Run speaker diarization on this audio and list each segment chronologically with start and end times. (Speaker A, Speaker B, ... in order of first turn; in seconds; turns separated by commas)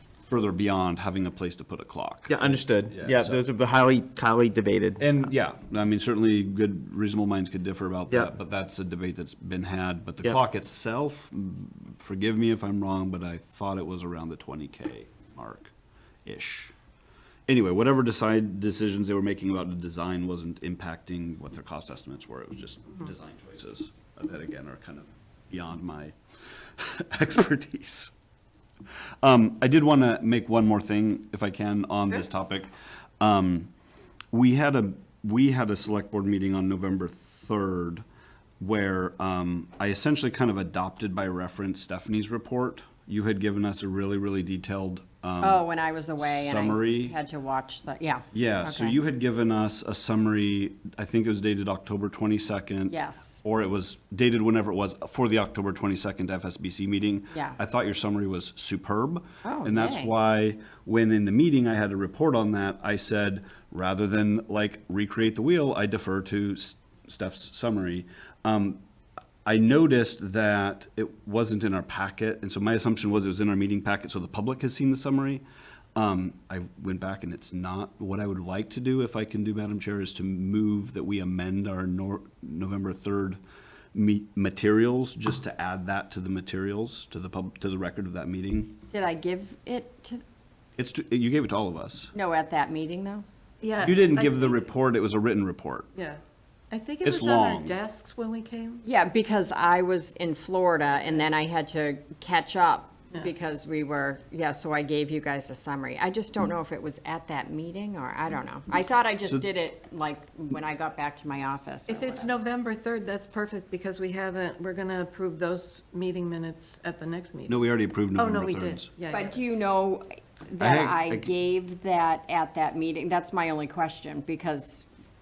Speaker A: 0.3-3.4, Speaker B: 2.3-5.2, Speaker A: 5.0-15.7, Speaker A: 16.3-16.7, Speaker A: 17.5-26.2, Speaker A: 26.8-28.1, Speaker A: 29.2-33.7, Speaker A: 34.3-38.0, Speaker A: 38.6-45.6, Speaker C: 45.4-49.0, Speaker A: 46.2-47.1, Speaker A: 48.3-68.8, Speaker C: 52.9-53.4, Speaker C: 57.3-57.6, Speaker C: 59.5-60.1, Speaker A: 69.5-75.4, Speaker A: 76.0-83.4, Speaker A: 83.9-88.8, Speaker C: 88.9-90.2, Speaker A: 90.8-92.1, Speaker C: 92.1-93.2, Speaker D: 93.6-94.7, Speaker A: 93.8-95.9, Speaker D: 96.0-96.2, Speaker D: 96.7-98.8, Speaker A: 97.0-97.8, Speaker C: 98.8-112.3, Speaker D: 111.9-119.4, Speaker A: 117.5-118.9, Speaker C: 119.1-124.9, Speaker A: 120.6-121.3